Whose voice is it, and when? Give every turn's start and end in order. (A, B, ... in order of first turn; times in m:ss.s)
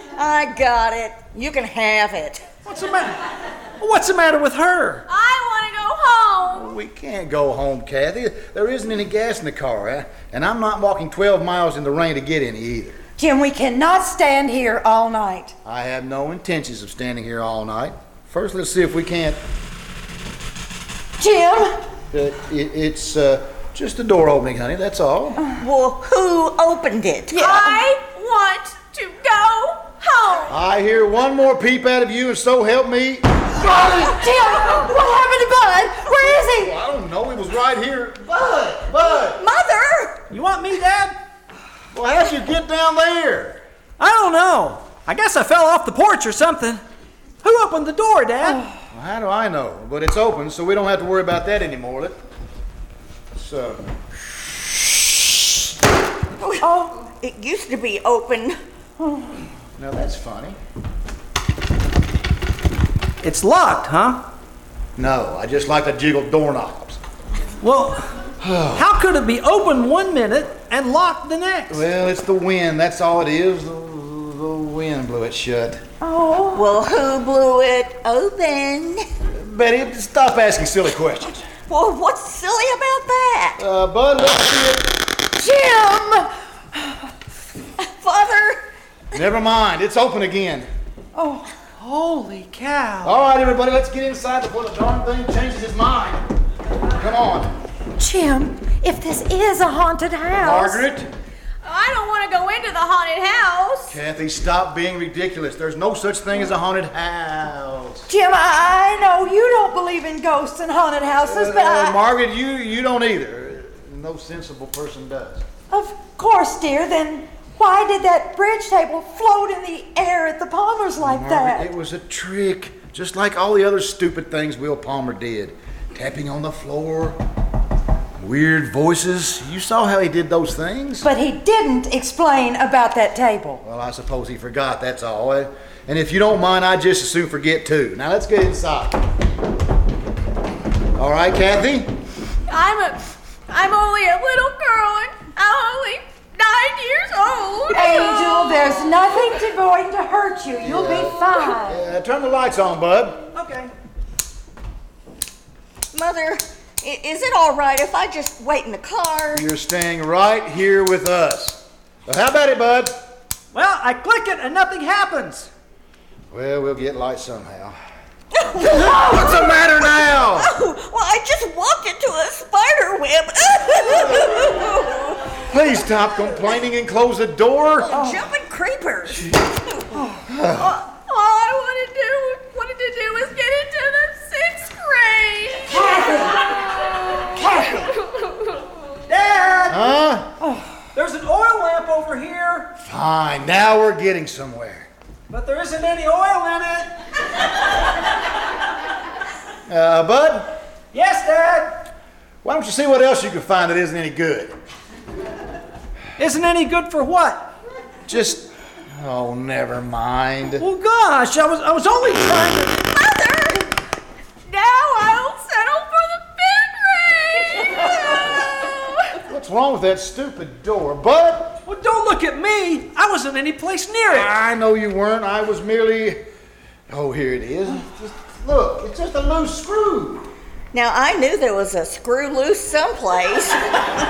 0:00.2-0:02.4 A
0:02.7-0:05.0 B
0:05.1-0:06.7 C
0:06.5-0:13.0 D
0:13.2-0:15.5 E
0:15.6-0:19.4 D
0:21.2-0:21.8 E
0:22.1-0:25.4 D
0:25.6-0:27.4 A
0:27.3-0:27.8 E
0:27.4-0:30.6 C
0:30.5-0:33.3 D
0:33.6-0:36.7 E
0:36.3-0:39.4 D
0:39.0-0:40.2 A
0:40.3-0:41.2 B
0:41.9-0:43.6 D
0:44.0-0:46.8 B
0:47.4-0:48.6 B
0:48.9-0:52.2 D
0:53.4-0:53.8 D
0:56.4-0:58.6 A
0:56.6-0:57.0 E
0:59.8-1:00.6 D
1:03.2-1:04.2 B
1:05.0-1:07.0 D
1:07.6-1:08.1 B
1:08.4-1:08.9 D
1:08.7-1:11.9 B
1:11.7-1:15.8 D
1:16.0-1:16.6 E
1:16.5-1:19.1 A
1:19.4-1:21.4 D
1:21.7-1:23.6 A
1:23.6-1:24.9 D
1:25.4-1:27.0 E
1:27.8-1:28.6 A
1:29.1-1:30.7 D
1:31.2-1:31.5 E
1:31.8-1:33.2 B
1:33.0-1:36.2 D
1:37.0-1:37.5 D
1:38.0-1:40.9 E
1:40.4-1:41.1 D
1:41.6-1:44.0 C
1:43.9-1:48.1 D
1:48.1-1:52.0 E
1:51.2-1:55.4 D
1:55.7-2:01.7 E
2:01.0-2:07.2 D
2:08.2-2:11.1 D
2:11.0-2:13.6 E
2:13.6-2:19.0 D
2:21.0-2:21.9 D
2:22.5-2:28.9 C
2:27.7-2:31.8 E
2:30.6-2:33.2 D
2:33.3-2:33.7 B
2:35.9-2:39.5 A
2:39.3-2:43.1 D
2:43.5-2:45.5 B
2:46.3-2:47.8 D
2:48.3-2:55.2 A
2:48.6-2:50.5 D
2:55.5-2:57.9 D
2:57.8-2:59.9 A
2:57.9-2:58.2 E
3:00.3-3:00.8 D
3:00.6-3:08.7 C
3:05.7-3:06.5 E
3:07.3-3:07.9 E
3:09.1-3:10.0 B
3:09.7-3:10.3 D
3:11.0-3:12.7 B
3:12.8-3:14.9 D
3:15.3-3:16.9 B
3:19.7-3:20.6 D
3:20.9-3:21.9 B
3:22.4-3:24.5 D
3:26.2-3:27.5 B
3:28.1-3:30.6 D
3:30.6-3:32.8 B
3:32.9-3:33.7 A
3:34.5-3:39.2 C
3:39.2-3:41.6 D
3:41.6-3:44.3 B
3:44.1-3:46.2 D
3:46.9-3:50.3 D
3:50.7-3:53.7 A